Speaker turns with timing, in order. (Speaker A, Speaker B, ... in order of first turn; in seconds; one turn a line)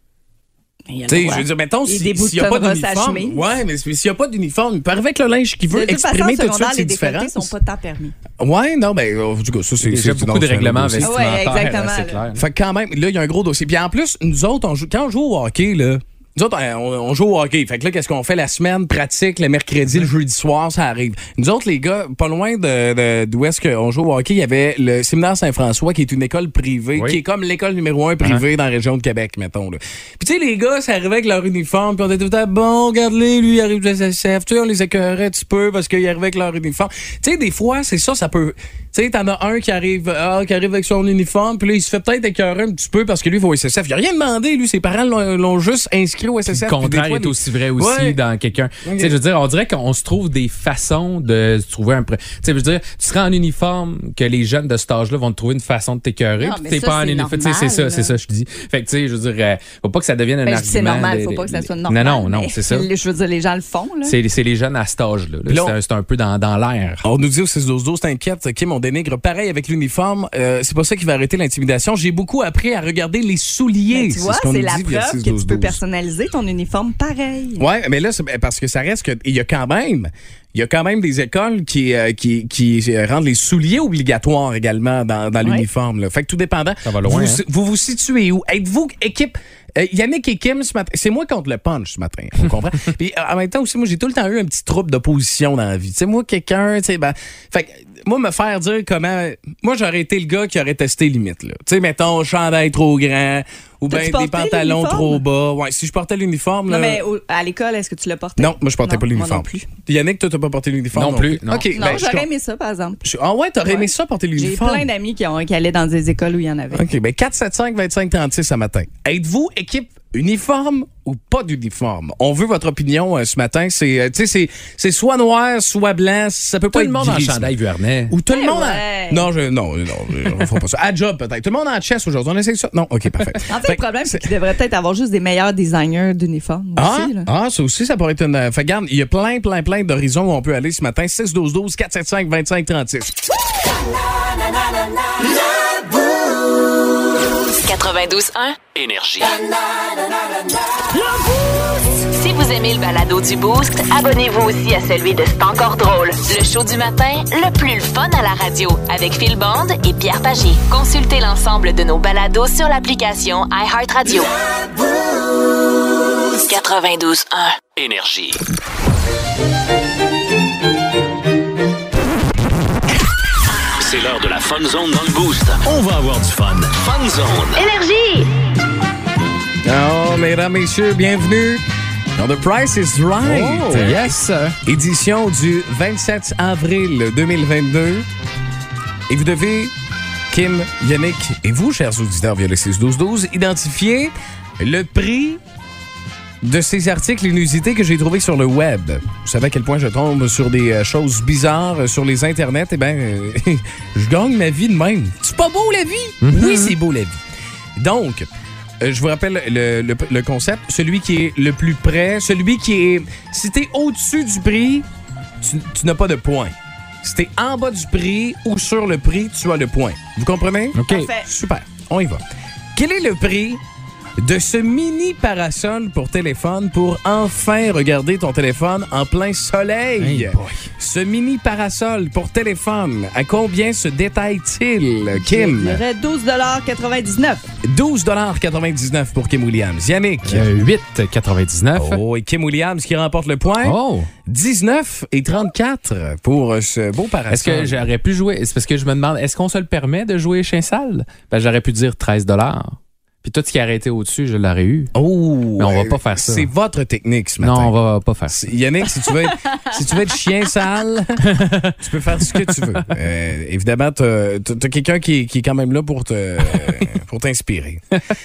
Speaker A: 0.9-3.4
Speaker B: 1.1-7.5
Speaker A: 5.7-8.2
Speaker B: 8.4-11.2
Speaker C: 9.8-12.4
Speaker A: 11.0-12.2
Speaker B: 12.3-48.2
Speaker C: 46.5-62.9
Speaker B: 48.8-49.2
Speaker A: 56.4-58.1
Speaker A: 60.5-64.2
Speaker C: 64.0-67.1
Speaker B: 65.5-65.8
Speaker B: 67.0-75.8
Speaker A: 73.9-77.7
Speaker B: 77.6-107.0
Speaker C: 86.8-87.4
Speaker A: 103.9-105.2
Speaker A: 106.7-109.7
Speaker B: 108.4-112.3
Speaker C: 110.9-112.0
Speaker A: 111.8-113.0
Speaker B: 113.0-114.9
Speaker A: 113.7-116.9
Speaker B: 116.7-127.5
Speaker C: 126.7-128.2
Speaker B: 128.1-134.3
Speaker A: 128.3-129.3
Speaker A: 133.5-137.3
Speaker B: 136.8-143.3
Speaker D: 147.6-148.6
Speaker E: 148.7-149.5
Speaker D: 151.9-164.3
Speaker D: 166.4-167.6
Speaker E: 167.8-168.4
Speaker E: 173.8-177.7
Speaker D: 177.6-178.3
Speaker B: 179.7-181.6
Speaker B: 182.2-188.1
Speaker C: 183.2-184.6
Speaker B: 189.1-189.7
Speaker B: 190.3-195.4
Speaker B: 196.4-207.2
Speaker C: 206.2-206.7
Speaker B: 207.8-208.3
Speaker B: 208.8-214.9
Speaker B: 215.4-222.2
Speaker C: 220.7-221.1
Speaker A: 220.9-221.3
Speaker B: 222.8-223.6
Speaker B: 224.2-235.8
Speaker C: 230.0-230.7
Speaker A: 235.2-237.5
Speaker B: 237.6-240.5
Speaker C: 240.2-242.0
Speaker B: 241.8-247.8
Speaker C: 243.6-244.1
Speaker C: 247.3-254.9
Speaker B: 254.9-257.7
Speaker C: 255.6-256.5
Speaker C: 257.4-258.4
Speaker B: 258.3-261.3
Speaker C: 261.2-261.8
Speaker B: 261.8-267.8